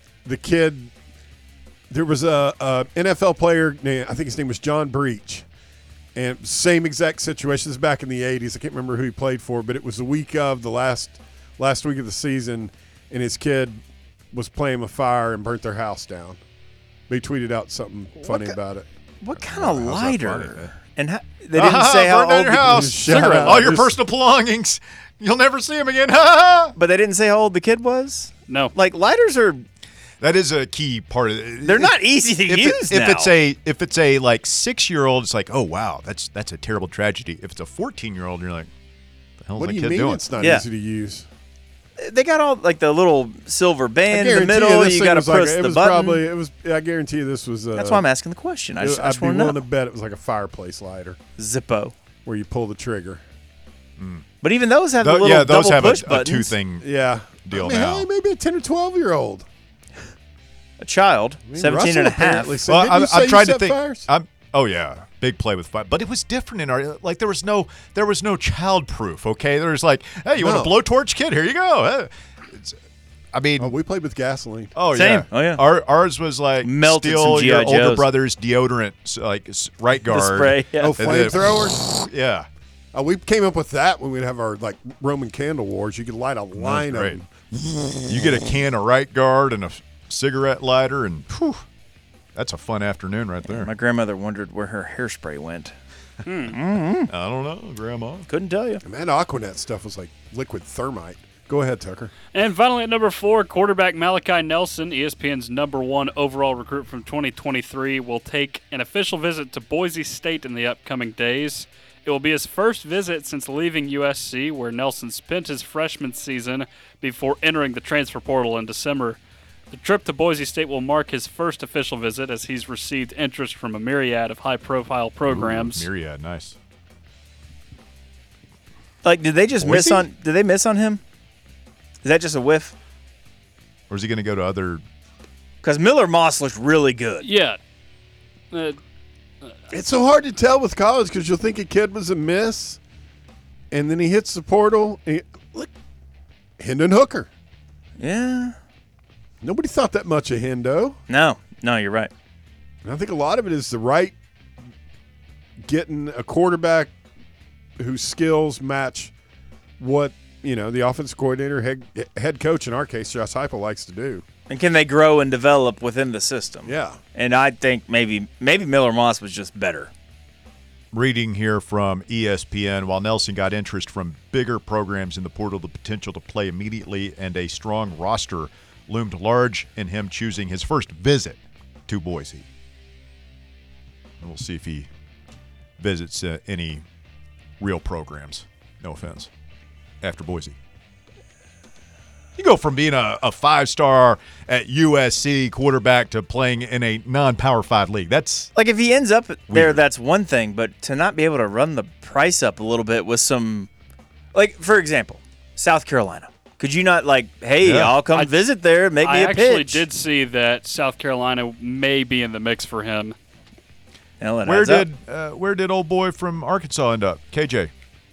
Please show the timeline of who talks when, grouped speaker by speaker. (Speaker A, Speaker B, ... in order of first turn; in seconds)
Speaker A: 0.2-0.9, 1.9-5.5, 6.1-13.8, 14.3-16.4, 17.1-18.9, 22.5-23.9, 39.5-41.3, 44.1-48.0, 48.8-51.2, 52.2-53.2, 56.8-59.5, 61.5-64.1, 70.3-70.8, 73.6-74.7, 80.8-82.0, 82.9-87.3, 98.8-102.1, 139.7-142.8, 143.7-145.7, 146.6-147.3, 149.4-151.0, 152.8-154.2, 155.6-156.9, 157.8-159.1, 159.8-164.2, 166.7-167.0
Speaker B: 18.2-18.6, 19.2-23.7, 26.8-29.6, 31.6-33.3, 40.4-40.6, 42.0-46.2, 47.7-49.6, 51.4-51.9, 54.4-56.5, 60.8-62.6, 74.9-75.6, 76.6-78.1, 80.1-81.0, 93.5-95.8, 96.5-97.1, 98.3-98.8, 129.0-131.0, 132.0-132.7, 135.6-137.2, 148.0-148.6, 151.1-152.1, 164.5-169.9, 198.5-203.7, 204.3-209.8, 214.2-214.9
Speaker C: 19.4-20.7, 21.5-26.7, 30.2-38.7, 39.4-40.2, 54.0-54.2, 55.0-56.9, 57.4-58.1, 62.7-72.8, 73.3-73.7, 74.8-82.5, 86.6-87.2, 88.0-91.6, 92.3-93.7, 97.1-98.3, 125.2-126.6, 129.6-130.1, 133.9-134.8, 170.9-182.4, 184.2-184.9, 185.8-186.8, 187.6-189.3, 190.0-190.6, 192.4-198.5, 199.5-199.8, 207.6-207.9, 214.4-217.7
Speaker D: 28.5-28.7, 96.2-96.5, 102.3-119.2, 119.7-125.9, 137.2-137.6, 138.5-138.8, 209.0-213.1